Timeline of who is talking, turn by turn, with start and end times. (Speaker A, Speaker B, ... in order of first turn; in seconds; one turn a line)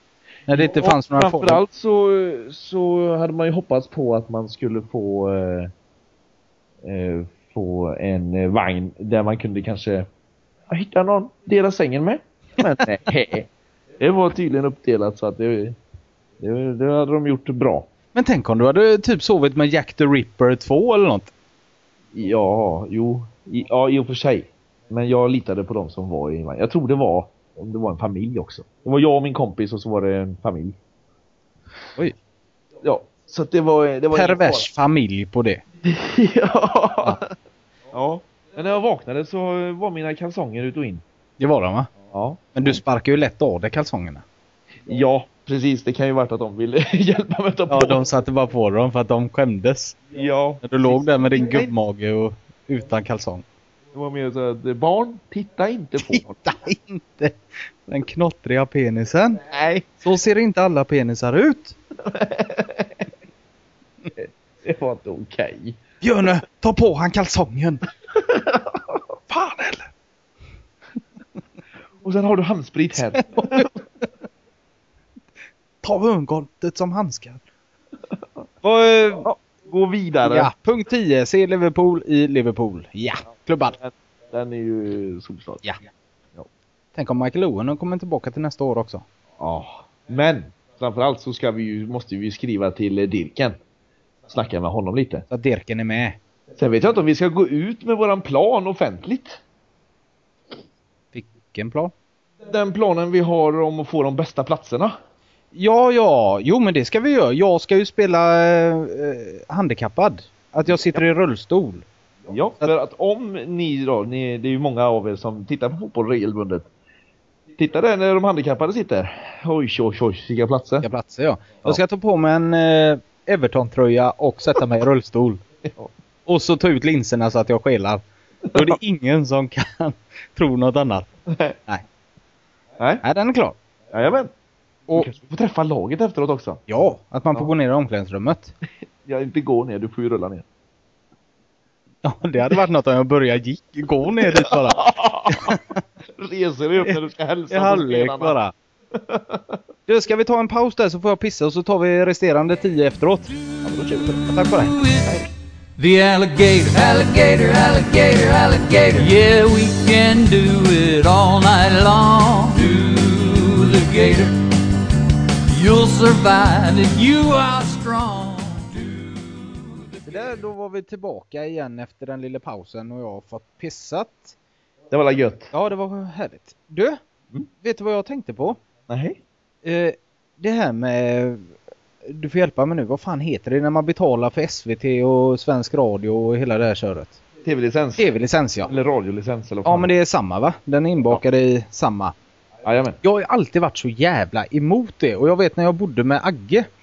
Speaker A: 0.5-1.6
Speaker B: 0.5-5.7
Speaker B: 6.8-10.1
Speaker B: 10.7-13.5
Speaker B: 14.0-15.8
Speaker B: 16.4-17.9
Speaker A: 18.1-21.3
Speaker B: 22.1-30.8
Speaker B: 32.8-34.7
Speaker A: 34.1-35.6
Speaker B: 35.8-37.3
Speaker B: 37.9-41.0
Speaker A: 41.4-41.9
Speaker B: 42.1-42.4
Speaker A: 42.5-44.2
Speaker B: 44.9-48.0
Speaker A: 47.7-50.0
Speaker B: 50.1-51.7
Speaker A: 50.6-53.5
Speaker B: 53.9-56.4
Speaker A: 56.0-59.4
Speaker B: 59.5-59.9
Speaker A: 60.0-61.8
Speaker B: 62.0-63.1
Speaker B: 64.2-65.8
Speaker A: 66.0-67.8
Speaker B: 68.2-69.0
Speaker A: 69.3-69.9
Speaker B: 72.0-73.7
Speaker A: 73.0-74.0
Speaker A: 75.8-77.4
Speaker A: 78.6-79.3
Speaker B: 79.2-80.5
Speaker A: 80.2-83.8
Speaker B: 83.8-85.6
Speaker A: 87.0-89.0
Speaker B: 89.4-93.6
Speaker B: 94.3-95.2
Speaker A: 95.3-96.2
Speaker B: 96.6-99.4
Speaker A: 101.1-101.9
Speaker B: 102.4-104.9
Speaker A: 105.5-111.8
Speaker B: 110.7-111.0
Speaker B: 112.3-116.7
Speaker B: 117.6-120.9
Speaker A: 120.8-125.4
Speaker A: 126.3-131.1
Speaker B: 131.3-131.6
Speaker A: 133.0-133.6
Speaker B: 133.9-134.3
Speaker B: 134.9-136.6
Speaker A: 136.7-138.5
Speaker B: 139.1-140.5
Speaker A: 142.0-145.8
Speaker B: 144.3-145.6
Speaker B: 146.2-148.4
Speaker A: 147.5-148.5
Speaker B: 148.9-149.6
Speaker A: 149.9-153.3
Speaker B: 153.6-154.3
Speaker A: 154.3-154.8
Speaker C: 154.8-155.1
Speaker C: 155.8-164.3
Speaker C: 165.5-168.9
Speaker B: 170.0-170.3
Speaker A: 170.1-174.3
Speaker B: 174.9-175.5
Speaker A: 175.5-177.0
Speaker A: 177.6-178.6
Speaker B: 178.9-179.2
Speaker A: 179.7-181.5
Speaker A: 182.1-187.2
Speaker B: 187.4-188.1
Speaker A: 188.0-188.7
Speaker B: 188.7-189.9
Speaker A: 189.7-192.1
Speaker B: 192.6-193.0
Speaker A: 193.0-196.7